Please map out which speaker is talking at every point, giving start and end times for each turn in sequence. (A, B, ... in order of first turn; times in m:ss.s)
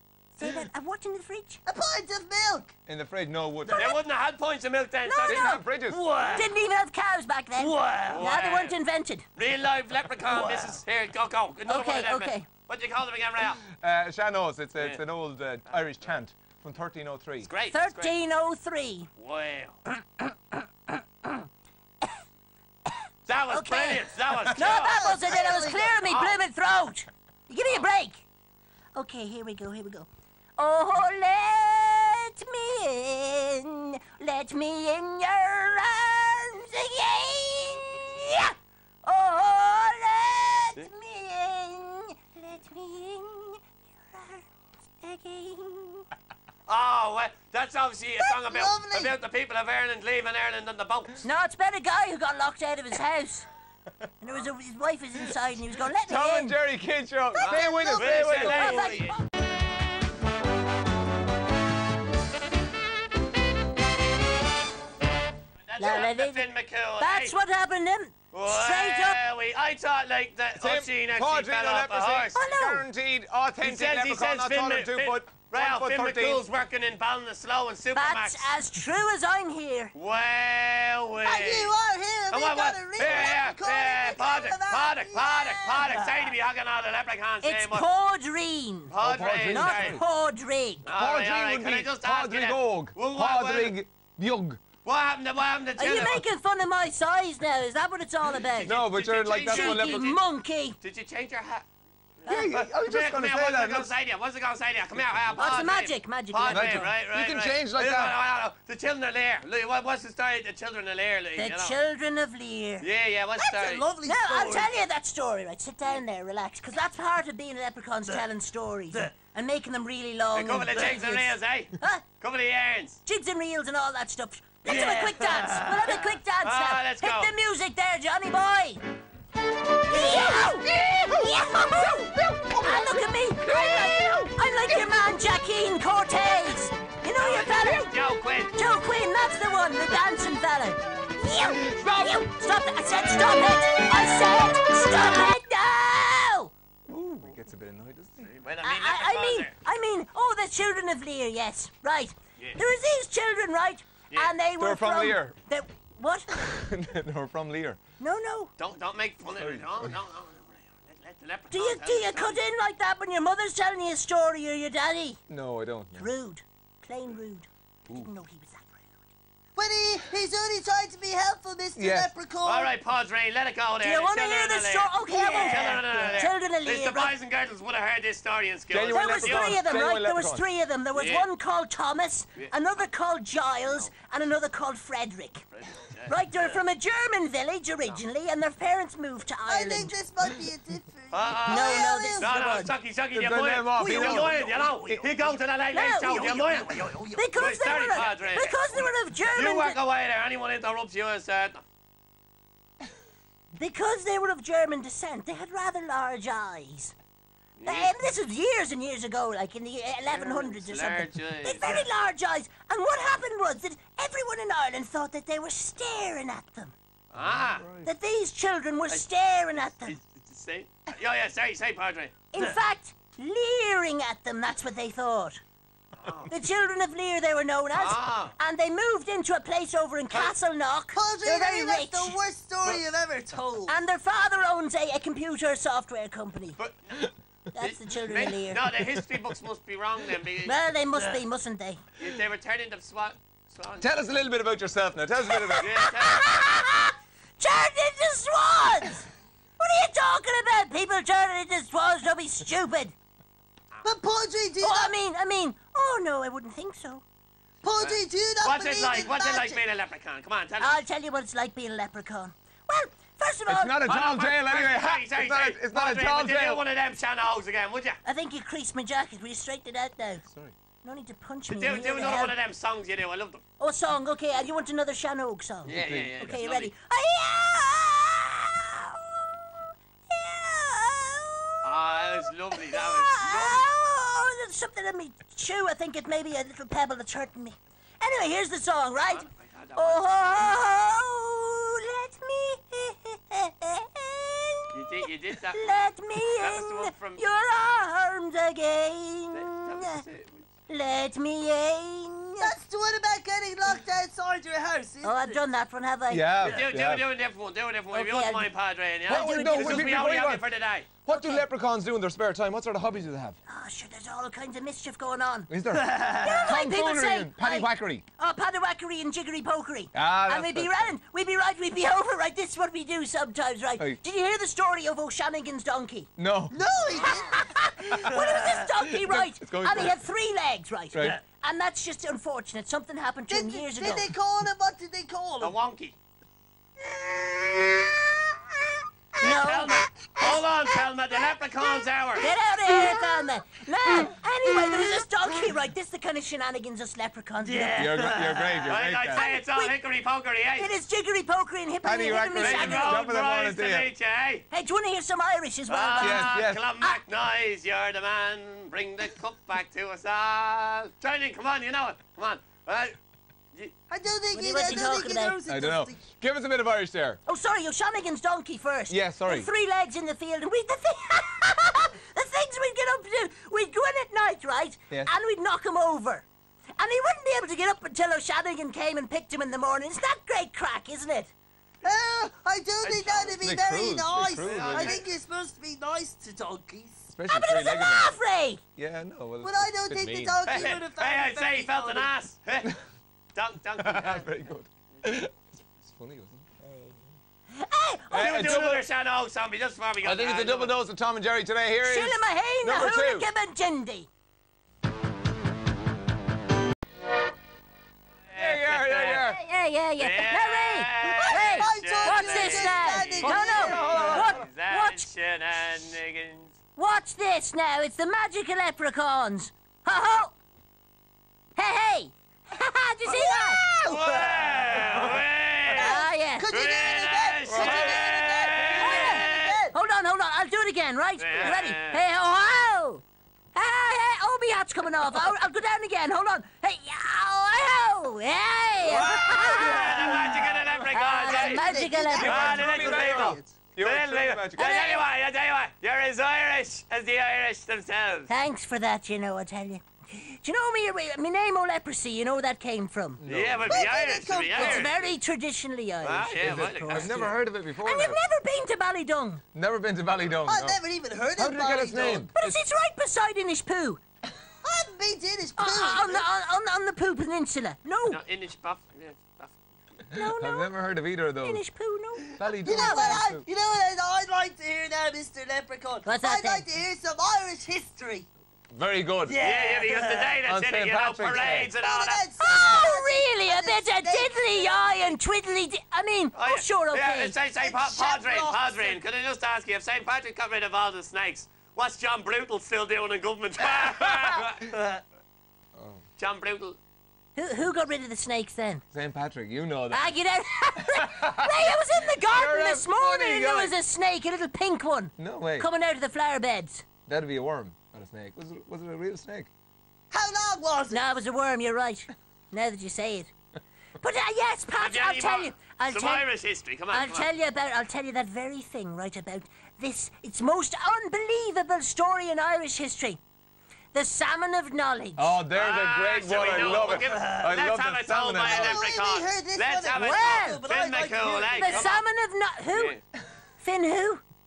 0:00.4-0:01.6 A
0:01.6-0:02.7 B
0:02.9-0:03.9 C
0:03.6-0:04.0 B
0:03.7-0:05.6 D
0:05.0-0:05.6 A
0:05.2-0:06.0 C
0:05.8-0:06.5 B
0:06.2-0:09.2 A
0:07.6-0:08.2 B
0:08.0-0:08.7 D
0:09.4-0:13.6 D
0:10.3-0:10.8 B
0:11.7-0:12.5 A
0:13.4-0:17.5 C
0:17.4-0:18.1 D
0:17.7-0:19.1 A
0:19.2-0:19.8 D
0:20.2-0:21.4 A
0:22.9-0:28.2 A
0:23.3-0:25.4 D
0:24.6-0:26.0 B
0:26.0-0:26.4 D
0:28.9-0:44.5 A
0:45.0-0:46.0 A
0:46.7-0:51.2 D
0:48.2-0:49.1 B
0:51.2-0:53.5 A
0:54.2-0:56.6 A
0:55.9-0:58.9 C
0:57.3-0:58.5 B
0:57.4-0:59.2 D
0:58.4-0:59.2 A
1:05.6-1:07.3 D
1:05.8-1:06.5 A
1:07.0-1:09.2 A
1:08.3-1:12.4 D
1:10.6-1:16.4 C
1:12.3-1:12.8 A
1:13.6-1:18.5 D
1:17.9-1:19.9 A
1:19.9-1:21.7 D
1:21.2-1:26.3 B
1:22.3-1:27.9 D
1:27.4-1:30.8 A
1:28.9-1:30.0 D
1:29.0-1:30.0 C
1:30.8-1:33.8 D
1:30.9-1:34.6 C
1:34.8-1:36.2 D
1:35.8-1:38.7 A
1:38.6-1:40.2 D
1:38.6-1:40.0 C
1:39.4-1:40.8 A
1:40.8-1:41.6 D
1:42.2-1:51.7 D
1:42.3-1:43.9 C
1:45.0-1:45.4 C
1:45.4-1:46.9 A
1:46.5-1:48.2 C
1:51.4-1:52.9 A
1:52.8-1:53.8 D
1:53.4-1:54.7 B
1:54.0-2:02.0 A
2:00.3-2:03.0 D
2:03.0-2:08.8 A
2:04.6-2:06.0 B
2:06.4-2:07.3 D
2:09.8-2:17.9 A
2:09.9-2:11.1 B
2:11.3-2:11.6 C
2:12.4-2:12.9 B
2:13.4-2:14.3 C
2:17.2-2:18.6 D
2:18.5-2:26.5 A
2:21.4-2:22.2 C
2:26.9-2:28.3 C
2:28.2-2:29.5 D
2:28.6-2:36.6 A
2:34.6-2:35.4 C
2:36.3-2:37.8 C
2:38.0-2:38.5 A
2:38.6-2:42.4 D
2:39.3-2:39.9 C
2:41.5-2:45.2 A
2:45.3-2:46.1 C
2:46.0-2:48.9 A
2:49.6-2:52.7 B
2:51.8-2:52.1 C
2:52.4-2:59.6 D
2:53.8-2:57.1 A
2:55.1-2:56.2 B
2:58.7-3:00.4 C
2:58.9-3:05.4 A
3:00.9-3:01.2 D
3:03.6-3:03.9 D
3:05.5-3:06.6 D
3:06.1-3:09.9 A
3:09.4-3:12.3 B
3:11.1-3:21.6 D
3:11.4-3:12.7 A
3:13.1-3:15.0 C
3:13.8-3:15.4 B
3:15.7-3:16.3 A
3:16.0-3:18.1 B
3:17.2-3:19.8 A
3:23.5-3:26.9 A
3:27.6-3:27.9 D
3:27.6-3:36.7 A
3:30.1-3:31.8 D
3:37.1-3:37.6 D
3:37.1-3:37.9 C
3:37.8-3:40.0 A
3:38.9-3:42.2 D
3:42.3-3:45.4 A
3:46.0-3:46.3 D
3:46.3-3:52.2 A
3:47.7-3:48.3 D
3:50.9-3:53.7 B
3:53.7-3:56.6 A
3:56.6-4:01.0 D
3:57.6-3:58.6 A
4:00.4-4:01.8 A
4:02.0-4:03.9 D
4:03.8-4:05.7 C
4:05.3-4:09.1 A
4:05.6-4:06.3 D
4:09.6-4:12.9 A
4:13.8-4:14.9 B
4:14.6-4:17.0 A
4:17.6-4:19.6 B
4:17.8-4:20.8 D
4:20.6-4:23.8 A
4:23.5-4:26.6 C
4:23.8-4:28.0 D
4:28.0-4:30.2 A
4:30.2-4:30.5 C
4:30.8-4:32.4 A
4:31.5-4:33.4 D
4:33.6-5:00.0 A
4:35.6-4:36.7 D
4:35.7-4:36.4 C
4:41.6-4:43.7 D
4:49.1-4:50.0 D
4:54.7-4:57.2 D
4:59.3-5:00.4 D
5:00.7-5:02.5 A
5:02.4-5:05.4 B
5:05.0-5:06.4 A
5:06.1-5:07.0 C
5:06.4-5:10.9 D
5:07.9-5:08.5 A
5:09.1-5:10.0 A
5:09.1-5:10.4 C
5:11.0-5:13.4 C
5:11.1-5:11.4 A
5:13.5-5:15.5 A
5:15.5-5:18.0 C
5:15.7-5:16.5 B
5:16.1-5:26.1 A
5:19.9-5:20.9 C
5:26.2-5:27.1 C
5:26.5-5:28.7 B
5:27.0-5:34.1 A
5:27.9-5:28.2 C
5:28.8-5:30.0 C
5:30.9-5:31.2 C
5:33.3-5:35.5 B
5:35.4-5:36.0 D
5:37.0-5:38.0 B
5:39.2-5:40.4 A
5:39.2-5:42.3 D
5:42.2-5:47.9 A
5:42.2-5:43.2 B
5:44.5-5:45.0 B
5:47.4-5:48.8 B
5:47.8-5:49.2 C
5:48.6-5:50.7 D
5:49.1-5:49.7 A
5:50.6-5:53.0 A
5:51.8-5:53.9 C
5:52.4-5:54.4 D
5:54.5-5:57.0 A
5:55.7-6:03.0 D
5:56.0-5:56.6 C
6:03.9-6:06.0 B
6:04.3-6:05.4 A
6:05.5-6:07.2 C
6:07.2-6:16.2 A
6:08.9-6:09.5 C
6:16.8-6:21.3 A
6:21.8-6:27.1 B
6:22.8-6:23.4 D
6:23.4-6:25.0 C
6:24.4-6:25.0 D
6:27.1-6:28.2 C
6:27.3-6:28.6 A
6:28.8-6:30.4 C
6:29.4-6:32.1 B
6:30.4-6:32.7 D
6:33.3-6:34.2 D
6:33.8-6:36.4 C
6:36.6-6:37.0 A
6:37.5-6:38.5 A
6:38.1-6:38.8 C
6:38.1-6:40.7 D
6:40.0-6:43.3 C
6:41.8-6:44.1 A
6:48.3-6:49.3 D
6:48.3-6:49.4 C
6:49.3-6:55.1 A
6:50.0-6:56.6 D
6:51.0-6:53.9 B
6:53.3-6:54.5 C
6:56.8-7:00.3 A
7:01.6-7:03.6 A
7:03.0-7:09.7 B
7:03.8-7:09.6 D
7:05.8-7:06.5 A
7:07.5-7:07.9 C
7:08.7-7:13.0 A
7:11.2-7:12.0 D
7:13.5-7:20.2 A
7:18.9-7:19.6 C
7:18.9-7:28.3 D
7:18.9-7:23.4 B
7:20.9-7:22.6 A
7:22.2-7:24.8 C
7:24.6-7:25.0 A
7:28.3-7:33.2 A
7:33.2-7:33.8 C
7:33.2-7:35.0 D
7:33.6-7:34.9 B
7:34.5-7:39.4 A
7:36.0-7:37.2 D
7:36.4-7:38.2 C
7:39.5-7:40.8 C
7:40.4-7:42.3 B
7:41.4-7:42.6 C
7:42.3-7:44.0 A
7:44.6-7:46.2 B
7:45.6-7:48.2 A
7:48.0-7:49.6 D
7:50.1-7:51.6 C
7:50.1-7:50.7 A
7:51.4-7:53.3 A
7:52.3-7:53.4 C
7:52.6-7:58.3 B
7:56.0-7:56.6 A
7:58.7-7:59.4 C
7:59.2-8:00.4 B
7:59.4-8:02.2 D
8:00.4-8:01.7 C
8:01.8-8:05.1 B
8:02.4-8:07.3 A
8:06.3-8:15.0 D
8:07.6-8:09.0 B
8:13.9-8:14.5 C
8:15.7-8:16.0 C
8:16.2-8:16.8 D
8:17.4-8:18.8 A
8:18.9-8:20.1 C
8:19.9-8:26.8 A
8:20.8-8:23.7 C
8:25.2-8:25.7 C
8:27.1-8:29.5 C
8:30.1-8:31.0 B
8:30.9-8:33.3 A
8:34.0-8:36.3 A
8:34.8-8:37.3 D
8:36.9-8:43.2 A
8:43.9-8:45.4 A
8:45.2-8:48.8 C
8:45.5-8:52.0 D
8:46.9-8:47.6 B
8:48.4-8:51.9 B
8:50.0-8:50.6 A
8:51.5-8:53.0 A
8:52.7-8:53.0 D
8:53.6-8:54.2 A